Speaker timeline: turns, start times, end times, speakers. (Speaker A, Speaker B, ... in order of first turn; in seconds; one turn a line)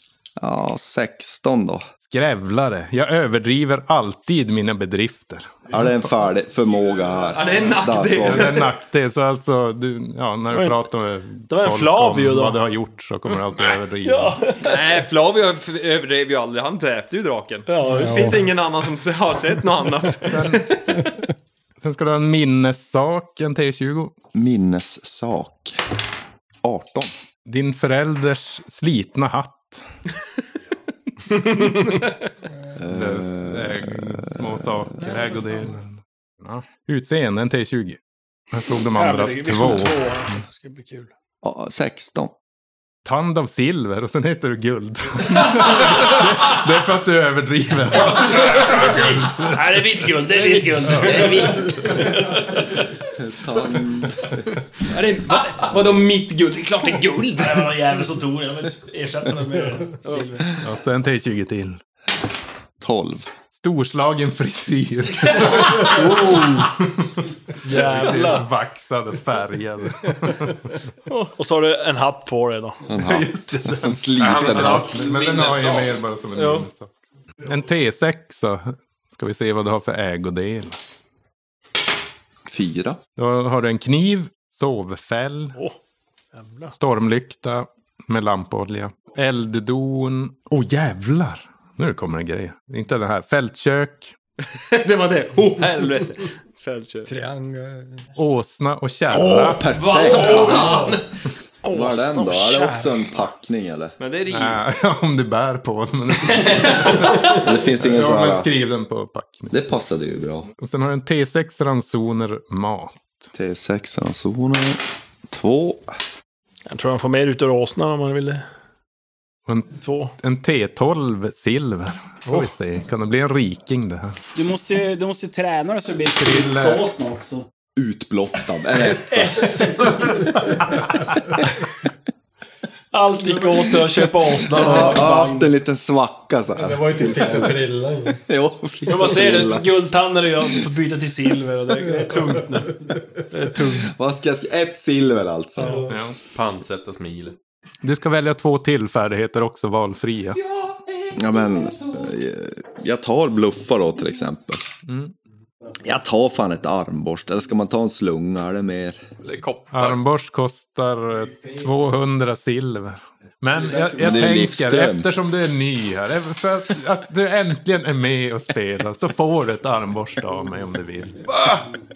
Speaker A: 0.4-1.9
Speaker B: 2.1-6.0
Speaker A: 5.7-8.6
Speaker C: 7.3-8.7
Speaker B: 8.2-14.4
Speaker D: 10.5-10.8
Speaker D: 11.5-12.6
Speaker D: 14.0-14.9
Speaker C: 14.6-21.1
Speaker D: 17.7-18.5
Speaker E: 17.9-18.5
Speaker B: 20.2-20.7
Speaker B: 21.8-24.1
Speaker A: 24.3-25.8
Speaker A: 26.6-27.1
Speaker B: 27.5-29.9
Speaker C: 31.3-32.3
Speaker A: 32.8-35.3
Speaker B: 32.9-38.0
Speaker B: 38.5-40.0
Speaker D: 38.9-41.1
Speaker A: 41.4-42.3
Speaker B: 43.0-50.1
Speaker D: 48.1-52.6
Speaker B: 50.7-52.4
Speaker C: 51.0-51.6
Speaker A: 53.1-54.4
Speaker C: 54.9-57.9
Speaker D: 57.4-60.5
Speaker C: 60.0-60.4
Speaker B: 60.6-61.8
Speaker A: 62.8-63.3
Speaker B: 63.5-70.8
Speaker D: 65.7-66.7
Speaker D: 67.6-68.5
Speaker D: 71.3-72.8
Speaker A: 72.9-75.1
Speaker B: 72.9-80.8
Speaker F: 74.2-74.6
Speaker C: 74.3-76.7
Speaker A: 82.5-83.0
Speaker B: 83.2-85.6
Speaker D: 86.3-86.7
Speaker B: 86.8-94.1
Speaker C: 94.5-97.1
Speaker E: 97.0-98.1
Speaker B: 98.2-99.8
Speaker A: 99.1-100.9
Speaker C: 99.7-101.1
Speaker D: 100.1-101.0
Speaker E: 100.6-101.0
Speaker D: 101.6-103.2
Speaker A: 101.7-104.0
Speaker C: 104.0-104.6
Speaker B: 104.3-109.5
Speaker C: 106.9-107.3
Speaker A: 107.3-108.5
Speaker A: 109.5-110.5
Speaker B: 110.6-113.3
Speaker A: 113.3-115.9
Speaker D: 116.7-118.4
Speaker B: 119.5-124.2
Speaker D: 119.8-120.2
Speaker G: 124.3-127.5
Speaker B: 126.2-126.9
Speaker A: 127.8-129.8
Speaker D: 132.9-135.5
Speaker A: 134.4-137.7
Speaker E: 136.6-138.2
Speaker A: 138.2-139.8
Speaker D: 138.9-142.8
Speaker E: 141.9-142.2
Speaker D: 143.3-143.8
Speaker A: 143.7-146.0
Speaker B: 145.8-146.2
Speaker F: 146.3-147.4
Speaker B: 147.8-150.4
Speaker C: 150.4-152.1
Speaker A: 151.2-154.7
Speaker B: 154.9-155.1
Speaker A: 155.8-159.0
Speaker F: 159.2-160.0
Speaker B: 159.7-171.3
Speaker A: 163.8-165.1